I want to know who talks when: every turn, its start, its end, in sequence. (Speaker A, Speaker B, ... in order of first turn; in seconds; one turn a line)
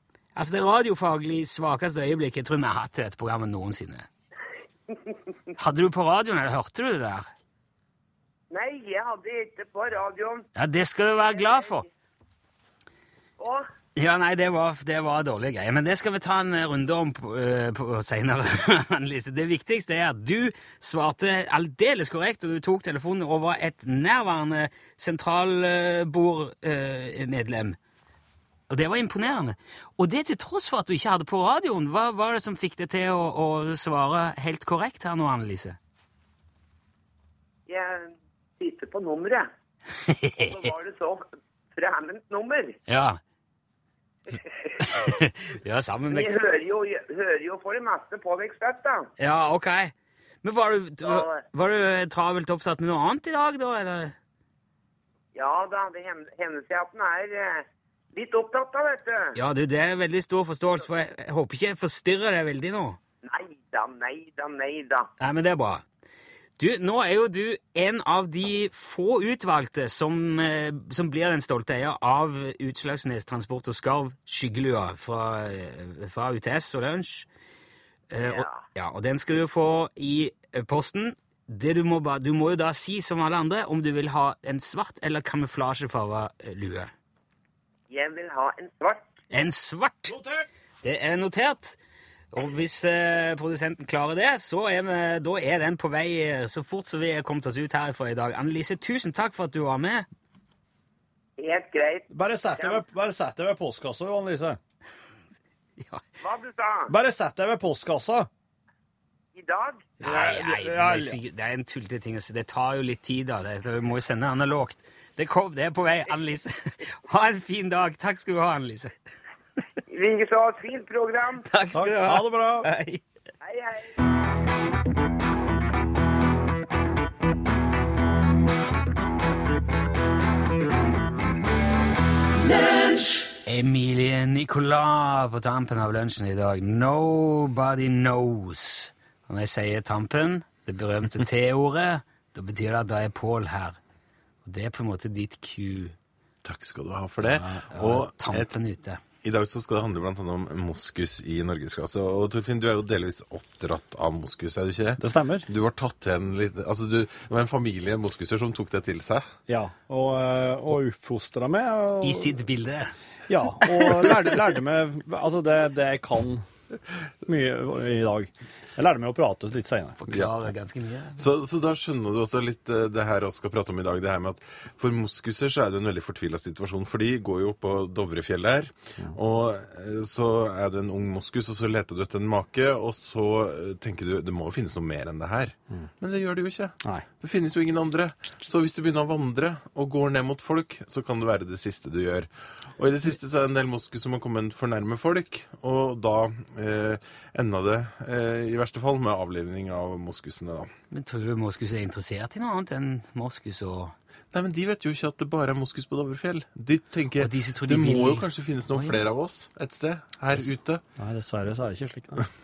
Speaker A: 0.3-4.1
Speaker A: 5.6-7.3
Speaker B: 8.5-10.4
Speaker A: 10.6-11.8
Speaker B: 11.3-11.8
Speaker B: 13.4-13.7
Speaker A: 14.0-27.8
Speaker A: 28.7-35.8
Speaker B: 37.7-39.5
Speaker A: 40.0-40.7
Speaker B: 40.4-42.8
Speaker A: 42.9-43.2
Speaker B: 44.3-45.1
Speaker A: 44.8-46.4
Speaker B: 46.1-49.1
Speaker A: 49.2-54.1
Speaker B: 51.0-51.4
Speaker B: 55.3-59.3
Speaker A: 59.4-63.0
Speaker B: 63.2-65.1
Speaker A: 65.2-65.8
Speaker A: 66.6-77.3
Speaker A: 78.1-86.9
Speaker B: 78.2-78.6
Speaker B: 87.9-89.0
Speaker A: 89.3-90.2
Speaker C: 90.1-90.5
Speaker A: 90.8-91.8
Speaker A: 92.3-100.1
Speaker B: 101.4-102.1
Speaker C: 102.1-104.6
Speaker B: 106.2-106.9
Speaker C: 106.9-108.3
Speaker B: 109.3-109.9
Speaker C: 110.0-111.2
Speaker A: 110.0-119.0
Speaker B: 119.9-121.5
Speaker A: 121.5-123.0
Speaker C: 121.7-122.7
Speaker B: 123.4-123.9
Speaker A: 133.4-143.8
Speaker A: 144.4-145.9
Speaker D: 146.4-148.5
Speaker A: 147.2-149.0
Speaker D: 149.2-159.3
Speaker C: 155.0-155.5
Speaker C: 159.5-162.4
Speaker A: 162.0-162.9
Speaker C: 163.3-166.5
Speaker A: 163.7-163.9
Speaker C: 167.2-170.1
Speaker A: 170.0-171.2
Speaker D: 171.2-200.7
Speaker A: 200.9-203.9
Speaker D: 204.3-210.8
Speaker A: 207.2-209.0
Speaker C: 211.0-212.3